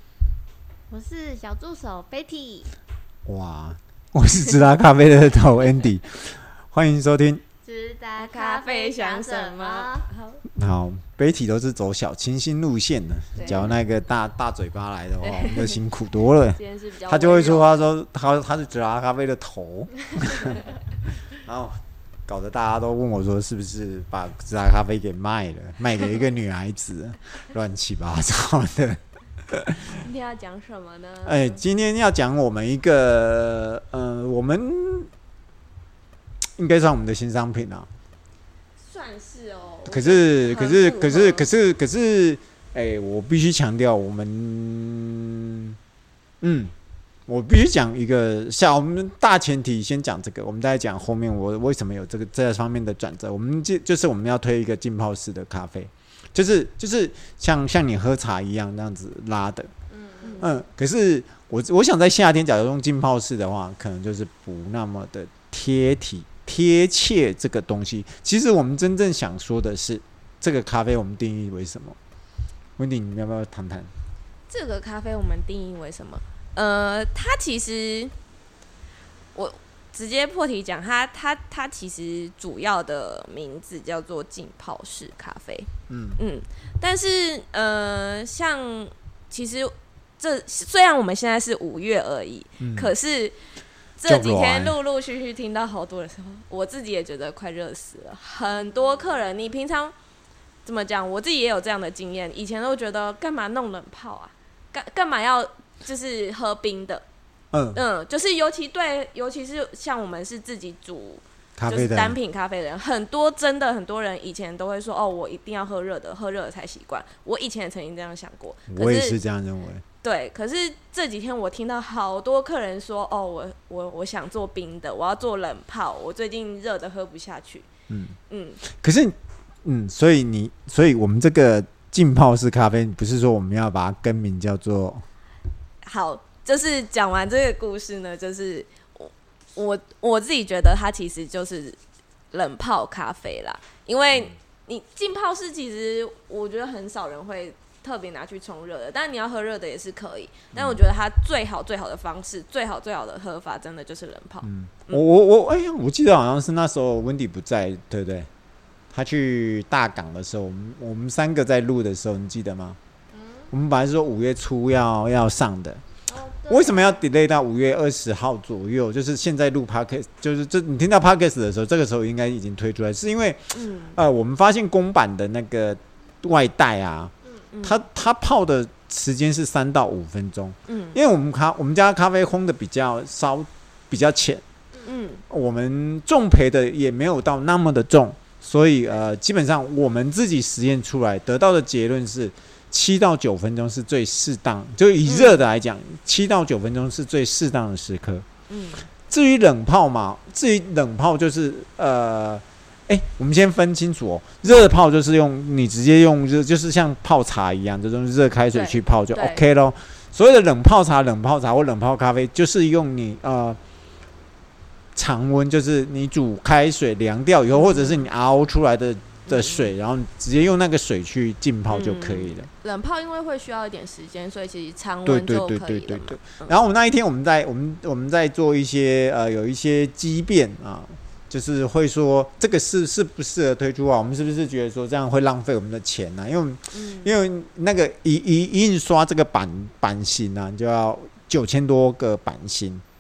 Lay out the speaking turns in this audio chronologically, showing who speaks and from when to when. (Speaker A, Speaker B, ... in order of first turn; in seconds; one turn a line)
Speaker A: 0.9-2.7
Speaker B: 3.3-7.4
Speaker A: 7.6-10.1
Speaker C: 8.2-10.4
Speaker B: 10.5-20.7
Speaker C: 13.3-13.7
Speaker C: 15.2-15.8
Speaker C: 16.5-17.8
Speaker B: 21.3-30.0
Speaker C: 29.9-31.6
Speaker B: 31.2-35.1
Speaker B: 36.6-37.9
Speaker C: 38.8-41.5
Speaker B: 39.9-45.8
Speaker B: 46.4-46.7
Speaker B: 47.3-59.7
Speaker A: 59.9-60.5
Speaker C: 60.2-60.5
Speaker B: 60.4-72.0
Speaker B: 72.8-73.9
Speaker C: 74.5-78.1
Speaker C: 79.3-93.4
Speaker B: 85.9-86.2
Speaker B: 92.6-92.9
Speaker C: 94.0-100.0
Speaker B: 94.0-94.8
Speaker C: 100.7-107.0
Speaker B: 107.5-107.8
Speaker C: 107.7-119.2
Speaker B: 111.6-112.2
Speaker B: 118.7-119.8
Speaker C: 120.0-127.7
Speaker B: 127.9-135.0
Speaker C: 128.3-128.6
Speaker C: 135.8-141.8
Speaker C: 142.3-155.0
Speaker B: 150.5-150.8
Speaker B: 154.4-158.3
Speaker B: 158.9-162.8
Speaker A: 163.1-163.5
Speaker B: 163.5-165.8
Speaker A: 166.1-167.0
Speaker B: 166.5-177.1
Speaker C: 173.5-174.0
Speaker C: 177.5-177.8
Speaker B: 177.6-184.4
Speaker C: 180.7-181.0
Speaker C: 184.8-185.2
Speaker B: 185.3-198.3
Speaker C: 195.1-195.4
Speaker C: 198.5-198.9
Speaker B: 199.1-213.6
Speaker C: 208.5-209.4
Speaker B: 214.9-222.5
Speaker C: 217.5-218.1
Speaker C: 219.3-219.7
Speaker C: 221.7-226.6
Speaker B: 225.1-242.8
Speaker C: 236.7-237.1